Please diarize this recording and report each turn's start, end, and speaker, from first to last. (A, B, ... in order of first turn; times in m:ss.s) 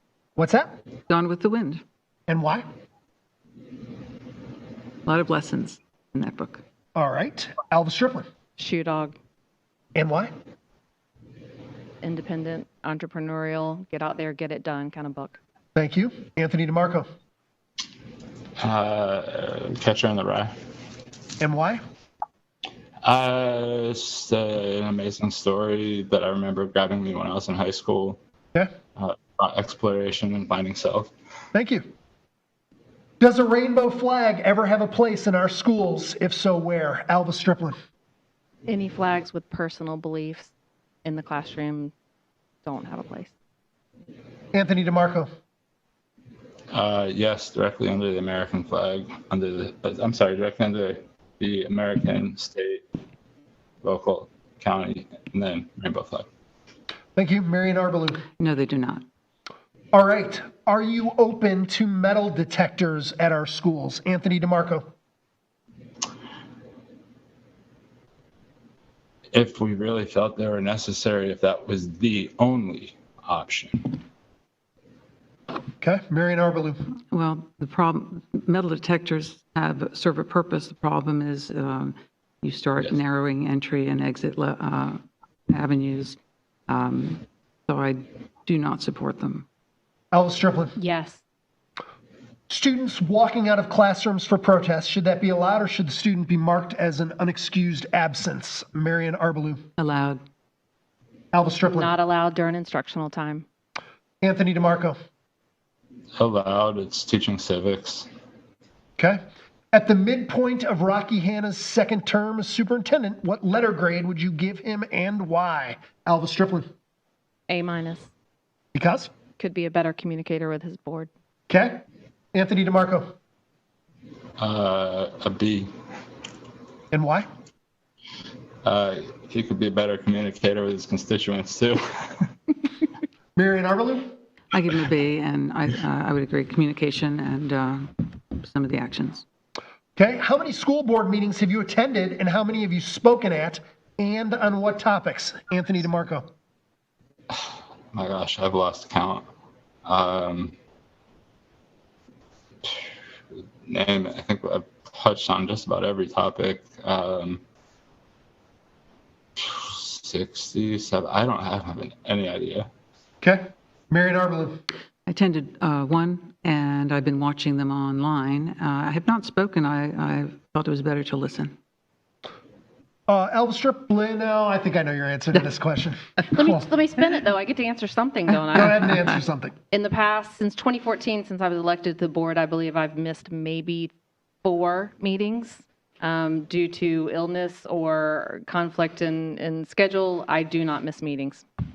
0:00.4-0:00.7 A
0:01.1-0:01.8 B
0:02.3-0:02.6 A
0:05.0-0:06.6 B
0:06.9-0:08.2 A
0:08.6-0:09.1 C
0:10.0-0:10.3 A
0:12.0-0:15.4 C
0:15.7-0:17.1 A
0:18.6-0:20.5 D
0:21.4-0:21.8 A
0:23.0-0:28.2 D
0:29.0-0:31.1 D
0:31.5-0:31.8 A
0:33.2-0:37.7 A
0:38.7-0:40.5 C
0:41.0-0:41.9 C
0:42.6-0:43.3 C
0:44.5-0:45.3 A
0:46.7-0:52.8 D
0:53.8-0:56.3 D
0:57.2-0:58.2 A
0:58.4-0:59.0 B
0:59.9-1:04.8 A
1:09.3-1:14.0 D
1:15.8-1:16.8 A
1:17.1-1:29.4 B
1:30.1-1:30.8 A
1:30.8-1:31.2 C
1:32.5-1:39.6 A
1:39.8-1:40.2 B
1:41.3-1:41.9 A
1:41.7-1:43.4 C
1:44.2-1:45.0 A
1:46.2-1:48.1 D
1:49.7-1:56.7 A
1:57.5-1:58.1 C
1:58.7-1:59.1 A
1:59.4-2:01.1 C
2:01.5-2:01.8 A
2:02.3-2:03.0 A
2:04.4-2:05.7 D
2:06.9-2:07.3 A
2:08.6-2:12.3 D
2:13.4-2:14.1 A
2:14.5-2:19.2 B
2:20.0-2:26.3 A
2:27.4-2:29.2 D
2:29.8-2:30.5 D
2:33.6-2:37.4 D
2:39.4-2:42.7 D
2:43.2-2:44.6 A
2:45.0-2:51.5 B
2:53.1-2:56.6 A
2:56.3-2:58.8 C
2:58.5-2:59.5 A
2:59.7-3:03.9 C
3:04.4-3:11.4 C